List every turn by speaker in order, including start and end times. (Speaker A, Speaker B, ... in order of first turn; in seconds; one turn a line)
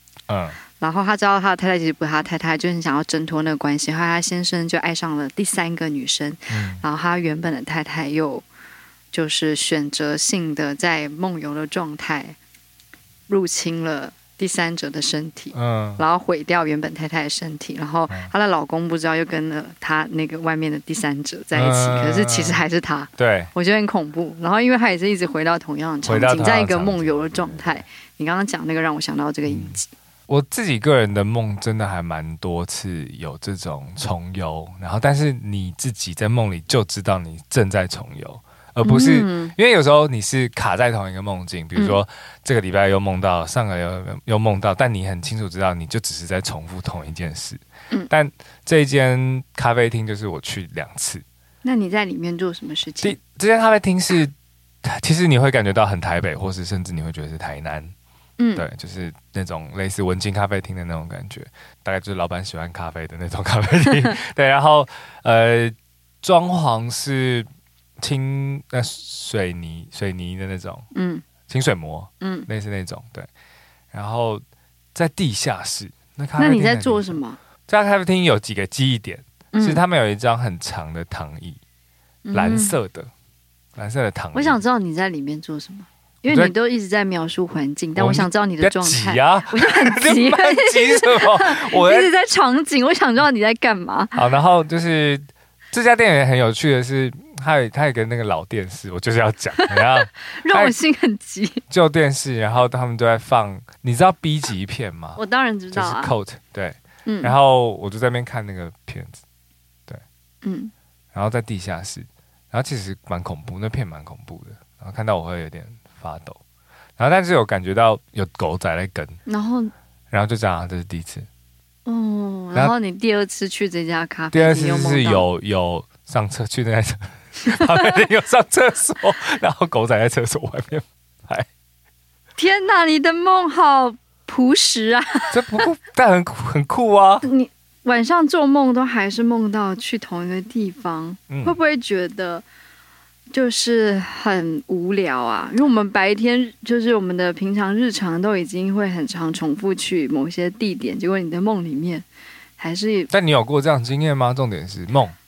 Speaker A: 0.3-0.6
Speaker B: 0.8-8.4
Speaker A: 6.5-6.8
Speaker B: 9.1-12.3
Speaker B: 13.3-29.9
Speaker A: 15.5-16.0
Speaker A: 21.5-22.6
Speaker A: 23.2-23.5
Speaker A: 26.0-27.8
Speaker A: 29.5-29.8
Speaker A: 30.3-51.2
Speaker B: 38.8-39.5
Speaker B: 51.6-53.2
Speaker A: 53.0-57.9
Speaker B: 58.4-58.6
Speaker A: 58.5-67.5
Speaker A: 68.0-70.9
Speaker B: 70.9-71.2
Speaker A: 71.5-73.3
Speaker B: 72.2-72.5
Speaker A: 73.9-74.4
Speaker A: 74.9-81.6
Speaker B: 76.4-77.4
Speaker B: 79.5-79.8
Speaker B: 82.2-82.7
Speaker A: 82.3-83.1
Speaker A: 83.8-84.6
Speaker B: 84.3-94.2
Speaker A: 88.0-92.1
Speaker A: 94.1-100.7
Speaker B: 99.7-101.6
Speaker A: 101.7-105.2
Speaker B: 105.2-106.1
Speaker A: 105.7-109.2
Speaker B: 107.0-107.3
Speaker B: 110.4-110.7
Speaker A: 111.1-116.4
Speaker A: 117.0-119.2
Speaker B: 119.2-119.7
Speaker A: 120.1-121.3
Speaker B: 121.8-125.2
Speaker A: 124.3-131.5
Speaker B: 127.5-127.8
Speaker B: 132.4-135.6
Speaker A: 135.3-137.2
Speaker B: 137.2-142.4
Speaker A: 141.3-141.6
Speaker B: 143.3-152.0
Speaker B: 152.6-153.1
Speaker A: 153.1-155.1